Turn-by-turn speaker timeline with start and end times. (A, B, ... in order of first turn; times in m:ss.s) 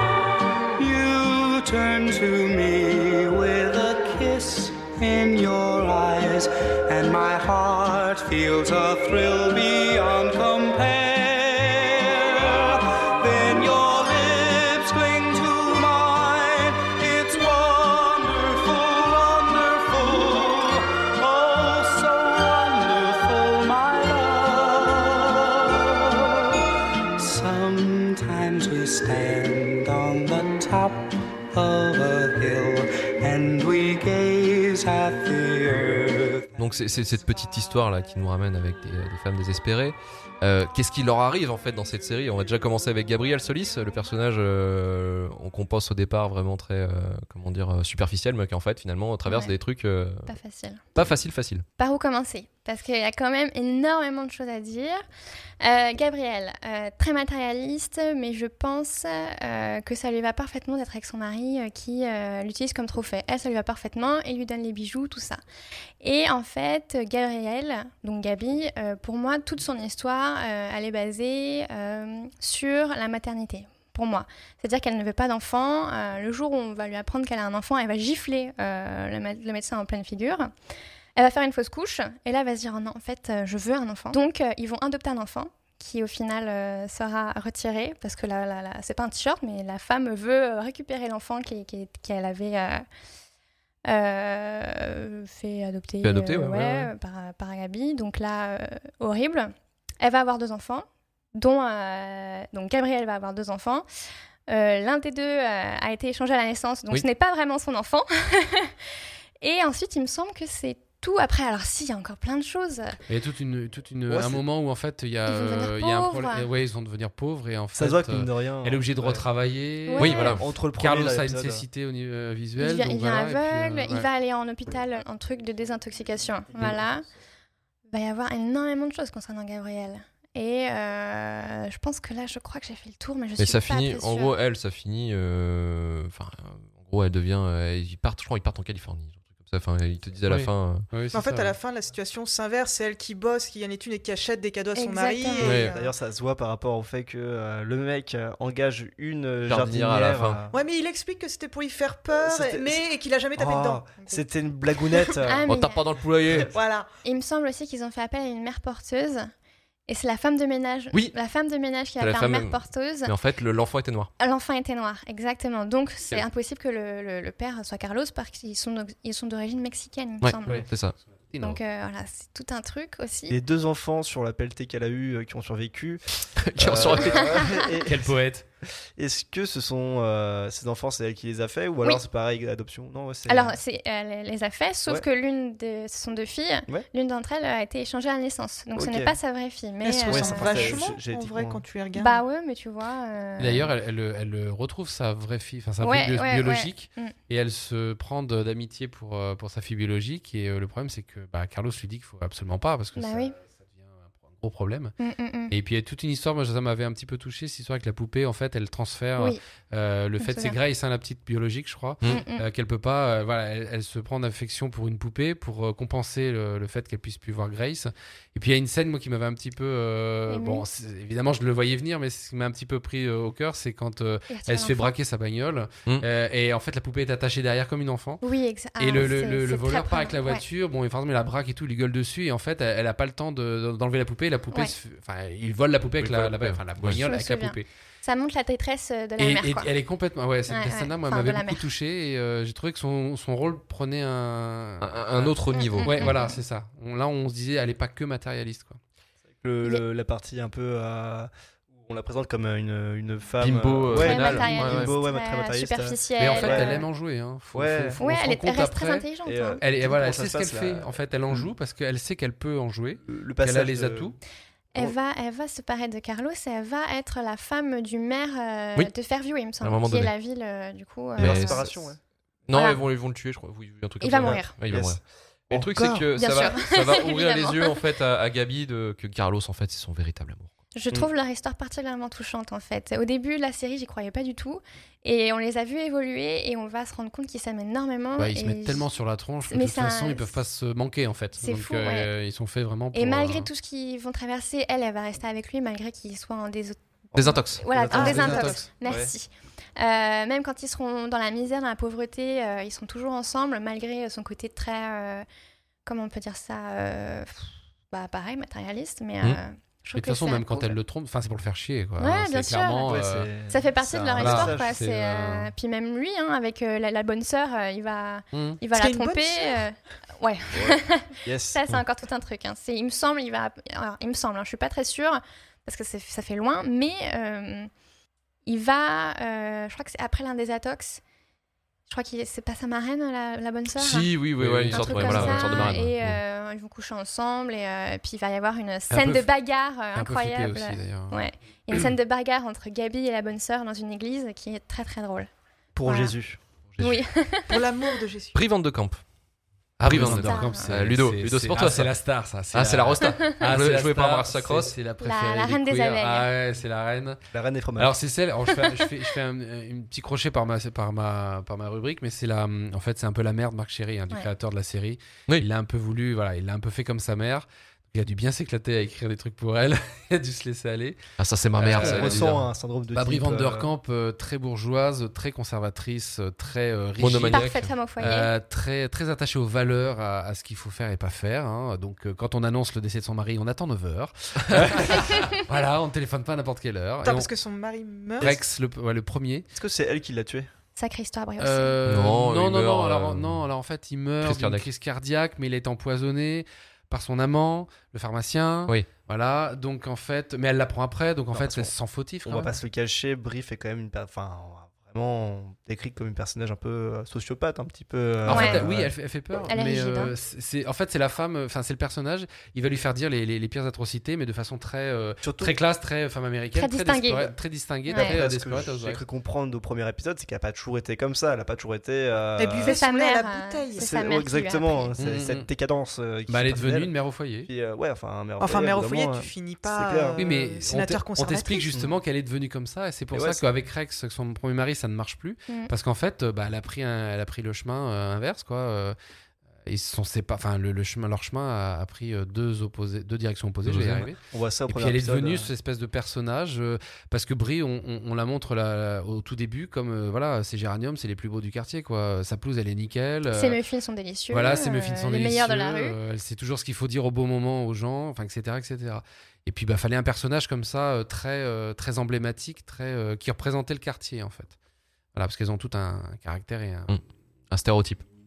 0:00.7-0:36.5 A
0:36.6-0:50.3 B
0:49.2-0:49.6 C
0:50.3-0:51.2 C
0:50.9-0:51.6 B
0:51.8-0:55.0 C
0:55.6-1:05.4 C
1:06.0-1:20.5 C
1:21.2-1:32.8 C
1:33.8-1:43.9 C
1:36.0-1:36.9 B
1:44.5-1:48.8 C
1:49.4-1:53.0 C
1:53.1-2:04.1 D
1:54.1-1:54.4 E
1:55.2-1:56.5 C
1:57.7-1:59.2 E
1:59.9-2:00.4 C
2:00.0-2:00.4 B
2:00.4-2:01.6 E
2:02.6-2:07.0 C
2:07.9-2:14.3 C
2:13.4-2:20.9 B
2:20.2-2:21.5 D
2:21.1-2:25.9 F
2:24.8-2:25.6 C
2:25.4-2:25.7 B
2:25.7-2:30.6 E
2:29.4-2:30.4 B
2:30.5-2:34.2 F
2:32.1-2:32.8 E
2:33.3-2:35.4 E
2:34.8-2:35.1 F
2:35.2-2:35.8 C
2:35.5-2:36.5 B
2:36.4-2:36.9 F
2:37.0-2:39.3 C
2:39.9-2:43.1 C
2:42.0-2:44.1 B
2:44.2-2:50.5 C
2:50.2-2:51.0 B
2:51.3-2:51.6 D
2:51.4-2:53.4 C
2:53.3-2:58.2 E
2:56.4-2:57.2 B
2:57.2-2:57.6 C
2:57.8-2:58.4 D
2:59.0-3:03.6 E
3:03.3-3:10.8 C
3:08.8-3:09.2 E
3:09.8-3:12.2 F
3:10.1-3:11.6 E
3:11.9-3:13.7 C
3:13.4-3:24.9 D
3:15.8-3:17.1 C
3:22.9-3:23.4 C
3:25.0-3:25.5 C
3:25.5-3:48.2 D
3:30.2-3:30.6 C
3:32.0-3:32.5 C
3:40.3-3:40.6 C
3:44.3-3:45.0 C
3:48.2-3:50.4 C
3:48.8-3:57.7 D
3:56.0-3:57.0 B
3:56.9-3:59.7 C
3:59.2-4:08.8 D
4:00.5-4:01.7 C
4:04.8-4:06.2 B
4:05.5-4:06.4 C
4:09.4-4:16.8 E
4:13.4-4:14.9 B
4:13.9-4:16.8 C
4:16.2-4:19.1 D
4:17.5-4:18.0 E
4:18.0-4:19.6 C
4:19.2-4:21.5 E
4:19.6-4:24.2 D
4:23.1-4:24.1 E
4:24.7-4:31.7 C
4:29.6-4:30.1 B
4:31.2-4:32.0 E
4:31.2-4:31.7 B
4:32.5-4:40.5 B
4:32.5-4:32.8 C
4:34.0-4:34.5 C
4:34.2-4:35.0 E
4:35.5-4:36.1 E
4:36.2-4:37.8 C
4:40.7-4:48.9 C
4:48.2-4:53.5 D
4:49.5-4:50.3 C
4:51.4-4:52.1 C
4:52.9-5:05.2 C
4:57.1-4:58.5 B
4:57.7-4:58.6 D
4:57.9-4:59.1 E
5:05.8-5:10.8 C
5:09.9-5:13.3 D
5:12.0-5:12.9 C
5:12.8-5:14.7 E
5:13.5-5:27.7 C
5:14.2-5:15.5 D
5:18.3-5:18.6 D
5:18.7-5:19.6 F
5:20.6-5:21.6 E
5:28.4-5:31.0 C
5:31.9-5:34.1 C
5:33.8-5:36.2 B
5:34.4-5:35.8 D
5:34.7-5:45.3 C
5:38.9-5:41.9 D
5:45.7-5:46.4 E
5:45.8-5:46.2 C
5:46.7-5:47.1 B
5:46.8-5:47.6 C
5:47.5-5:48.4 F
5:48.3-5:49.0 B
5:49.8-5:57.2 D
5:49.8-5:51.9 B
5:49.9-5:50.7 C
5:52.5-5:54.8 B
5:55.0-5:56.3 C
5:57.3-5:57.9 E
5:57.8-6:11.0 D
6:11.2-6:12.4 B
6:11.5-6:27.3 D
6:11.6-6:13.7 E
6:17.0-6:17.7 B
6:17.3-6:18.3 C
6:27.0-6:28.4 F
6:28.2-6:29.4 D
6:29.5-6:30.5 E
6:30.8-6:31.8 C
6:31.4-6:42.6 D
6:31.8-6:33.5 B
6:34.2-6:34.6 B
6:41.4-6:41.7 B
6:42.2-6:48.9 E
6:48.2-6:59.0 D
6:48.3-6:48.6 C
6:49.5-6:50.1 C
6:55.2-6:55.5 E
6:56.5-6:57.3 C
6:57.9-6:58.2 C
6:57.9-7:02.8 E
7:02.4-7:03.9 F
7:02.6-7:04.9 C
7:03.8-7:06.9 E
7:05.0-7:05.5 D
7:06.3-7:07.5 D
7:07.4-7:10.2 E
7:08.4-7:11.8 F
7:10.2-7:19.0 D
7:13.1-7:13.4 E
7:19.6-7:33.6 D
7:23.6-7:24.1 B
7:24.3-7:25.5 E
7:33.3-7:36.0 C
7:34.3-7:44.5 D
7:45.1-7:47.0 D
7:46.9-7:48.0 B